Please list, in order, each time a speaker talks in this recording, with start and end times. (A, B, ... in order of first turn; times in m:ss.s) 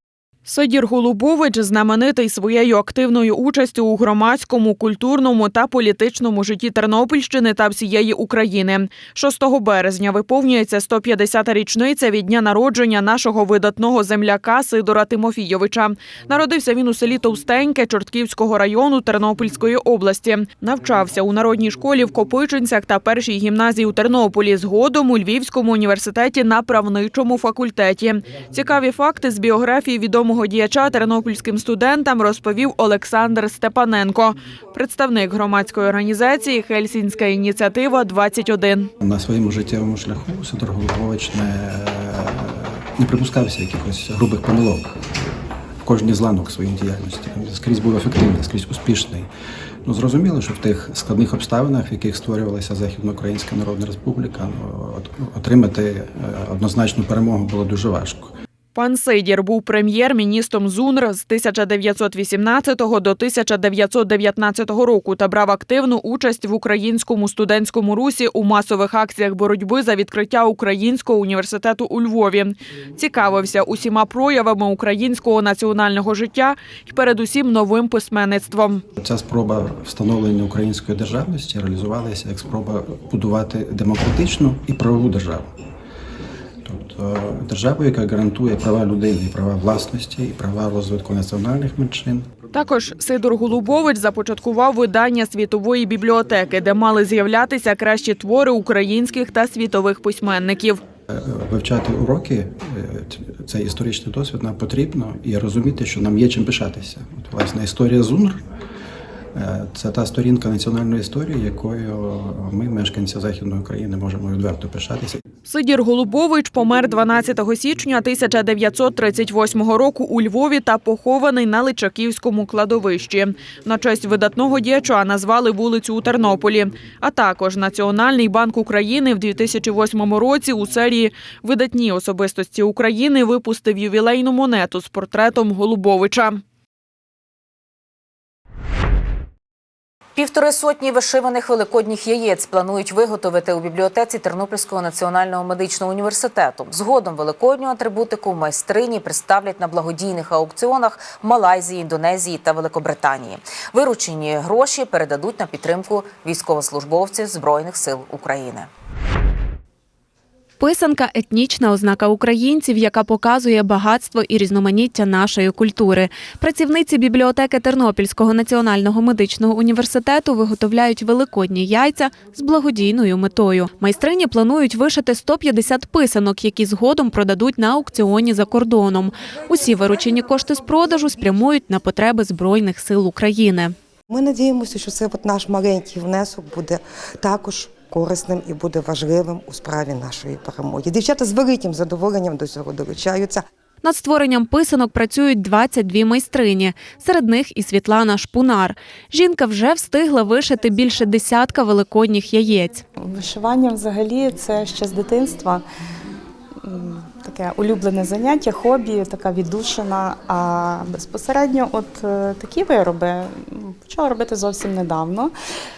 0:00.4-0:38.9 A
0:39.0-0:45.0 B
0:45.8-0:49.3 B
0:49.8-0:58.3 B
0:58.7-1:18.8 A
1:19.0-1:25.5 B
1:26.6-1:32.3 B
1:32.5-1:40.8 A
1:41.1-1:48.4 B
1:49.3-1:55.2 B
1:55.4-2:16.4 A
2:20.2-2:38.7 C
2:40.6-3:03.7 D
3:04.1-3:13.4 E
3:13.8-3:22.8 D
3:23.0-3:25.6 F
3:26.6-3:35.3 F